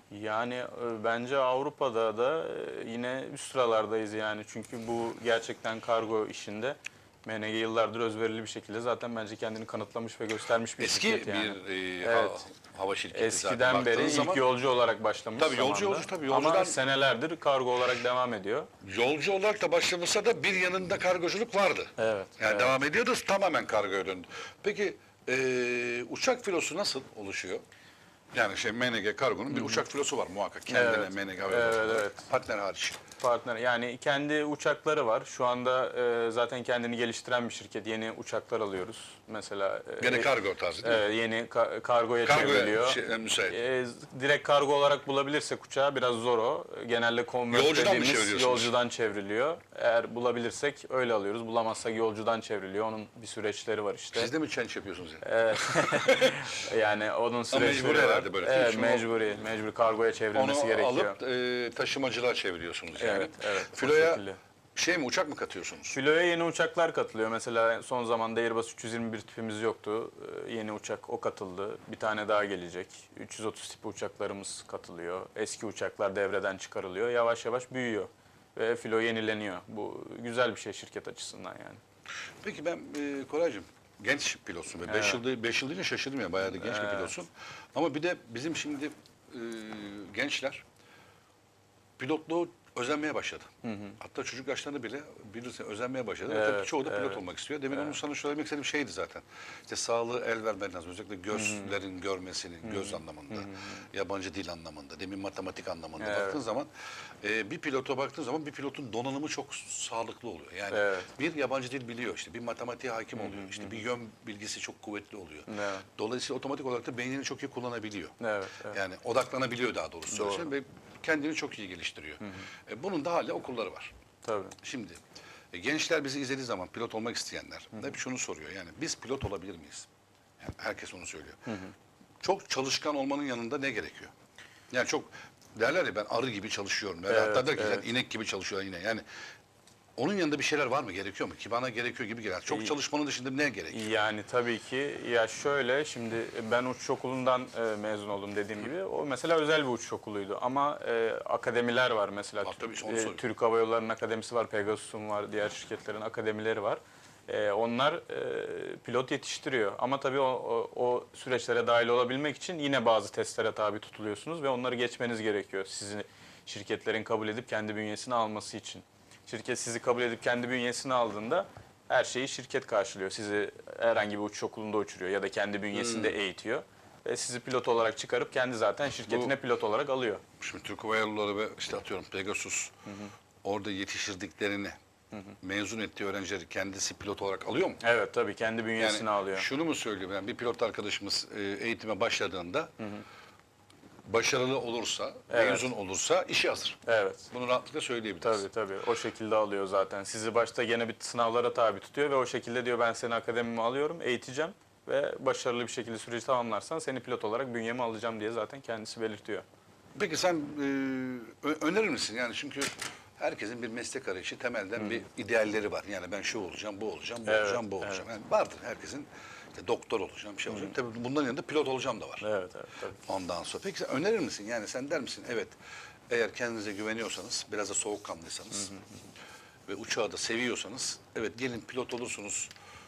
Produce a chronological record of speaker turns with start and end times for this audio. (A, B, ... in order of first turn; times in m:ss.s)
0:00.1-0:12.4 A
0:10.8-0:14.5 B
0:13.1-0:18.7 A
0:15.4-0:16.8 B
0:18.8-0:27.6 B
0:22.0-0:22.7 A
0:28.3-0:33.0 B
0:29.5-0:29.8 A
0:30.7-0:32.3 A
0:33.2-0:40.3 A
0:40.0-0:41.0 B
0:40.8-0:54.3 A
0:42.2-0:43.6 B
0:47.5-0:48.7 B
0:54.1-0:56.5 B
0:55.2-1:01.2 A
0:57.5-0:59.2 B
1:00.3-1:04.2 B
1:03.0-1:04.4 A
1:04.8-1:06.0 B
1:05.9-1:21.8 A
1:22.4-1:30.6 B
1:24.9-1:25.2 A
1:26.5-1:27.1 A
1:32.0-1:46.7 B
1:33.6-1:34.0 A
1:36.3-1:38.0 A
1:41.3-1:41.8 A
1:42.6-1:43.8 A
1:46.0-1:46.4 A
1:47.2-1:58.2 B
1:50.7-1:51.1 A
1:53.2-1:53.8 A
1:55.5-1:55.8 A
1:58.2-1:58.8 A
1:58.7-2:03.9 B
2:00.1-2:00.5 A
2:04.2-2:04.6 A
2:04.6-2:05.0 B
2:05.5-2:09.9 B
2:10.4-2:11.4 B
2:11.5-2:11.7 A
2:12.2-2:14.1 B
2:14.7-2:19.0 B
2:17.1-2:17.9 A
2:20.0-2:23.9 B
2:22.5-2:22.8 A
2:23.7-3:00.2 A
2:32.4-2:33.2 B
2:55.7-2:56.2 B
2:59.1-2:59.3 B
3:00.4-3:02.7 B
3:02.9-3:03.1 A
3:03.4-3:04.8 B
3:05.4-3:07.8 B
3:07.8-3:09.5 A
3:08.8-3:12.7 B
3:14.1-3:16.8 B
3:15.3-3:15.7 A
3:16.9-3:17.3 A
3:17.3-3:18.5 B
3:18.2-3:29.4 A
3:30.0-3:42.2 B
3:37.3-3:38.0 A
3:40.5-3:40.7 A
3:42.2-3:43.0 A
3:43.1-3:45.6 B
3:46.1-3:48.7 B
3:49.7-3:52.5 B